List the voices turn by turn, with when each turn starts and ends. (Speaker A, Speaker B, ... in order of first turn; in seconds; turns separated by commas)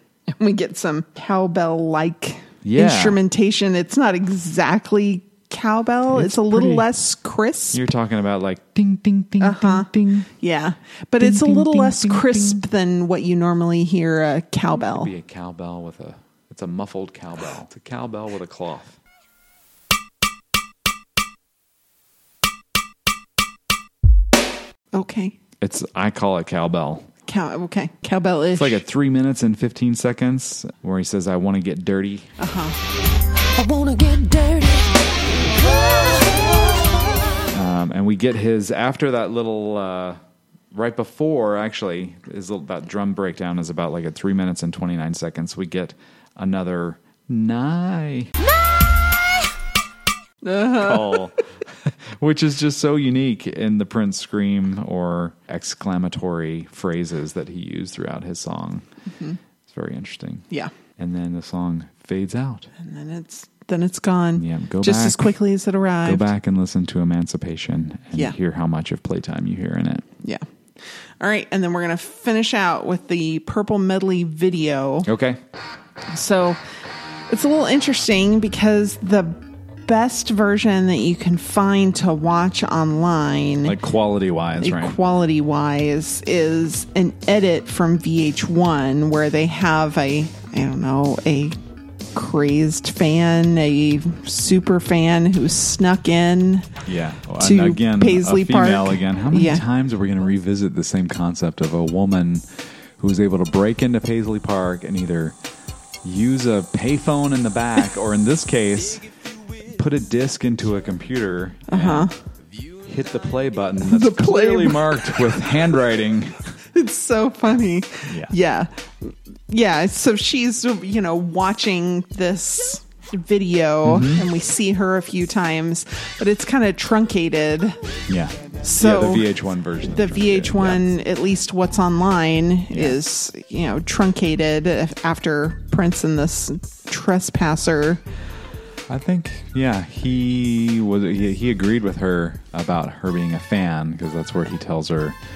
Speaker A: 0.3-7.8, Speaker B: 2.6-3.2, Speaker B: 6.1-6.9, Speaker B: 7.7-10.3, Speaker A: 9.4-15.1, Speaker B: 11.2-12.6, Speaker B: 14.8-19.0, Speaker A: 24.9-25.3, Speaker B: 25.6-27.1, Speaker A: 27.3-28.8, Speaker B: 28.5-32.3, Speaker A: 32.4-32.8, Speaker C: 33.6-34.8, Speaker C: 35.6-36.9, Speaker B: 37.5-40.2, Speaker B: 40.7-48.3, Speaker A: 50.4-51.3, Speaker B: 50.7-51.3, Speaker B: 51.8-58.8, Speaker B: 59.7-60.5, Speaker B: 61.0-62.7, Speaker A: 62.8-66.3, Speaker B: 64.3-65.3, Speaker B: 66.0-70.0, Speaker A: 71.2-75.1, Speaker B: 75.0-75.4, Speaker A: 76.1-76.6, Speaker A: 77.3-83.8, Speaker B: 83.6-85.0, Speaker A: 84.6-91.5, Speaker A: 92.1-96.7, Speaker B: 96.8-102.4, Speaker A: 97.4-99.6, Speaker B: 103.0-105.3, Speaker B: 106.0-109.1, Speaker B: 109.6-112.1, Speaker A: 111.7-112.1, Speaker B: 112.8-116.4, Speaker A: 113.8-115.2, Speaker A: 116.7-127.8, Speaker B: 118.1-118.3, Speaker B: 123.8-124.3, Speaker B: 128.1-130.8, Speaker A: 128.6-129.3, Speaker A: 129.8-138.0, Speaker B: 132.7-133.0, Speaker B: 138.9-145.2